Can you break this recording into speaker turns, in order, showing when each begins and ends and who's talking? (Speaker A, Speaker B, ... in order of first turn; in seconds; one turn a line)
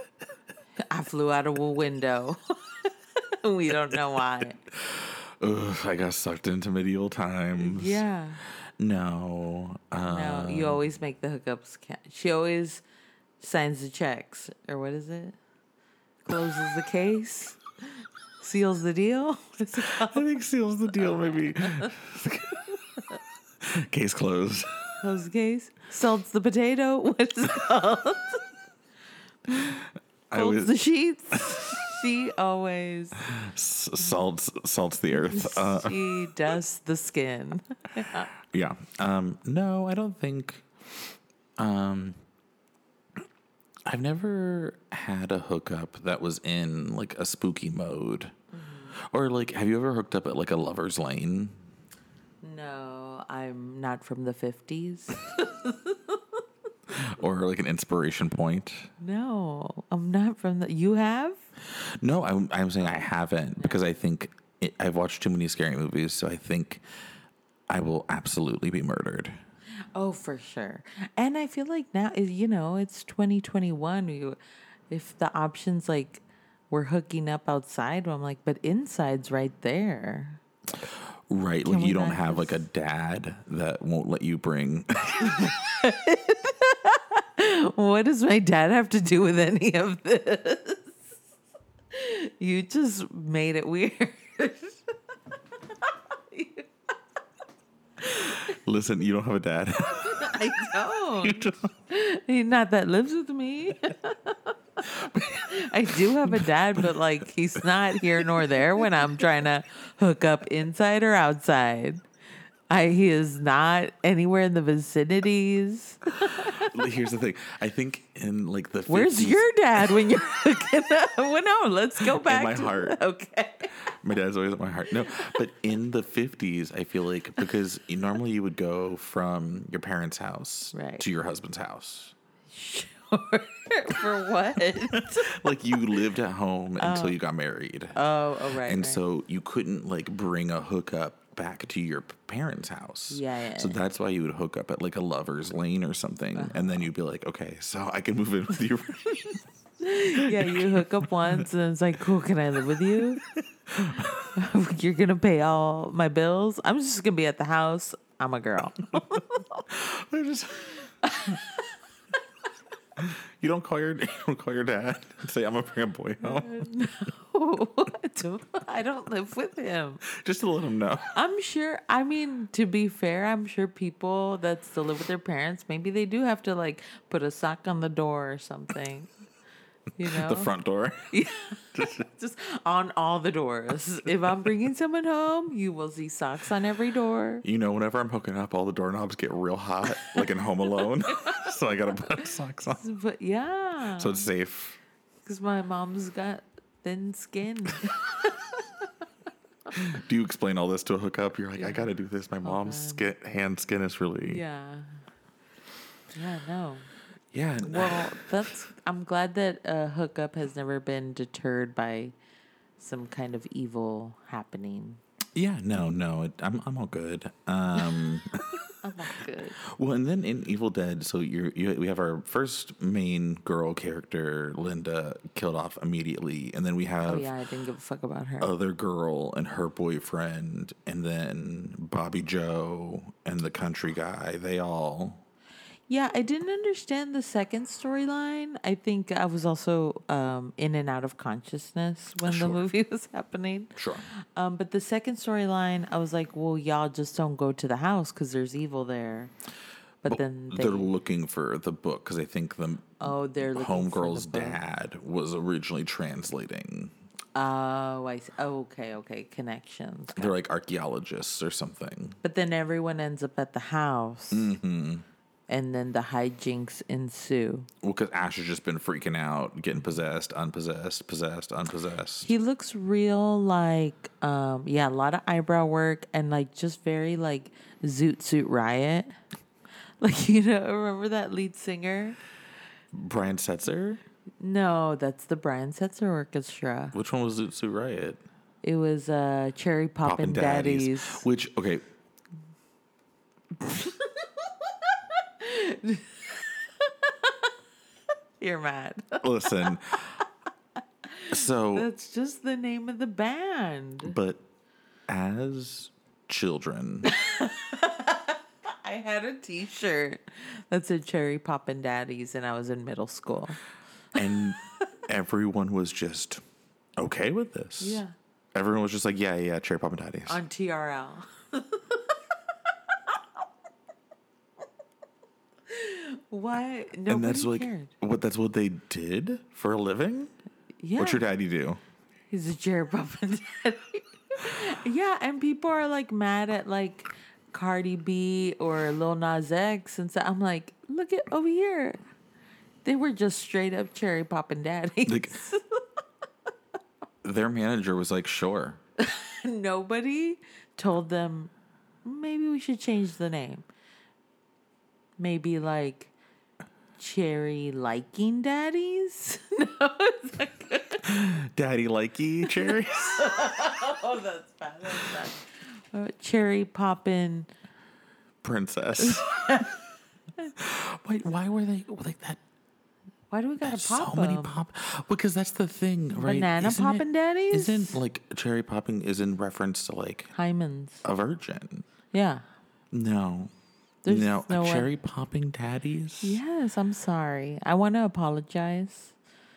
Speaker A: 0.9-4.6
Speaker B: 4.8-8.0
Speaker A: 7.6-8.4
Speaker B: 8.8-10.8
Speaker A: 10.1-12.8
Speaker A: 13.4-15.4
Speaker A: 16.2-17.6
Speaker A: 18.4-20.2
Speaker B: 19.8-23.0
Speaker A: 21.0-21.9
Speaker B: 23.6-25.0
Speaker A: 25.0-28.4
Speaker A: 29.5-33.2
Speaker B: 30.3-30.7
Speaker B: 31.4-31.6
Speaker B: 33.2-36.3
Speaker A: 35.1-38.3
Speaker B: 38.4-40.7
Speaker B: 41.6-42.2
Speaker B: 43.9-48.3
Speaker A: 48.5-49.0
Speaker B: 49.0-51.5
Speaker A: 52.4-56.2
Speaker B: 56.9-58.9
Speaker A: 59.0-61.4
Speaker B: 61.7-66.8
Speaker A: 63.6-63.9
Speaker B: 67.7-69.4
Speaker A: 70.0-74.4
Speaker A: 74.9-80.4
Speaker B: 80.9-85.5
Speaker A: 81.7-82.6
Speaker A: 85.2-91.0
Speaker A: 91.9-94.8
Speaker A: 95.7-96.7
Speaker A: 98.0-98.6
Speaker B: 98.2-100.3
Speaker A: 100.0-112.0
Speaker B: 101.2-101.7
Speaker B: 104.8-106.9
Speaker B: 108.2-108.9
Speaker A: 112.7-116.7
Speaker B: 116.2-119.9
Speaker A: 118.9-123.8
Speaker B: 122.0-123.0
Speaker B: 123.8-132.1
Speaker A: 130.7-131.0
Speaker A: 132.5-135.3
Speaker B: 134.9-138.0
Speaker A: 136.8-137.2
Speaker A: 137.9-139.0
Speaker B: 138.6-149.4
Speaker A: 143.1-143.8
Speaker A: 146.3-146.9
Speaker A: 149.8-153.2
Speaker B: 150.1-151.5
Speaker B: 153.2-154.2
Speaker A: 153.8-159.7
Speaker B: 159.7-160.9
Speaker A: 161.0-161.7
Speaker B: 163.0-166.7
Speaker A: 166.2-170.0
Speaker B: 170.1-171.1
Speaker A: 171.1-179.1
Speaker A: 180.0-180.5
Speaker B: 180.0-181.1
Speaker A: 181.1-187.4
Speaker B: 181.8-182.0
Speaker B: 187.4-192.8
Speaker A: 189.9-191.5
Speaker A: 192.7-194.3
Speaker B: 194.0-194.8
Speaker A: 195.2-198.9
Speaker B: 199.7-204.4
Speaker A: 201.6-201.9
Speaker A: 202.4-203.1
Speaker A: 204.2-204.9
Speaker A: 206.1-206.9
Speaker B: 207.3-208.3
Speaker A: 207.6-212.2
Speaker A: 212.8-215.0
Speaker B: 215.3-218.4
Speaker A: 218.8-219.6
Speaker B: 219.6-227.3
Speaker A: 227.1-228.5
Speaker B: 228.4-235.2
Speaker A: 235.9-249.3
Speaker B: 242.2-242.6
Speaker B: 243.8-244.1
Speaker A: 250.0-250.9
Speaker B: 250.1-256.9
Speaker A: 253.0-254.6
Speaker A: 257.4-260.3
Speaker B: 260.2-262.2
Speaker A: 262.2-264.6
Speaker B: 264.3-265.1
Speaker A: 265.5-267.7
Speaker B: 267.8-272.3
Speaker A: 272.2-279.1
Speaker A: 280.0-282.2
Speaker B: 282.9-284.0
Speaker A: 284.4-287.0
Speaker B: 286.9-288.2
Speaker A: 288.6-291.2
Speaker B: 290.0-291.8
Speaker A: 293.6-297.5
Speaker A: 298.4-299.8
Speaker B: 299.2-300.2
Speaker A: 301.1-304.2
Speaker B: 301.3-301.9
Speaker B: 304.0-304.4
Speaker B: 305.1-307.1
Speaker A: 307.0-313.6
Speaker B: 314.1-316.4
Speaker B: 317.0-318.0
Speaker A: 317.8-318.1
Speaker B: 318.5-320.4
Speaker A: 320.3-322.1
Speaker A: 325.7-327.9
Speaker B: 327.1-330.3
Speaker A: 330.8-331.2
Speaker B: 331.0-331.8
Speaker A: 332.3-342.0
Speaker A: 342.9-345.8
Speaker B: 345.1-345.4
Speaker B: 347.2-348.8
Speaker A: 349.0-351.5
Speaker A: 352.1-353.7
Speaker A: 355.2-356.1
Speaker A: 357.0-361.3
Speaker B: 361.0-363.3
Speaker A: 362.4-367.5
Speaker B: 368.4-369.6
Speaker A: 369.0-369.8
Speaker B: 370.6-372.4
Speaker A: 373.3-374.6
Speaker B: 373.6-380.3
Speaker A: 376.2-378.0
Speaker A: 380.3-381.0
Speaker B: 381.0-381.9
Speaker A: 382.1-382.4
Speaker B: 382.9-383.5
Speaker A: 384.1-384.9
Speaker B: 384.1-386.4
Speaker A: 386.2-389.1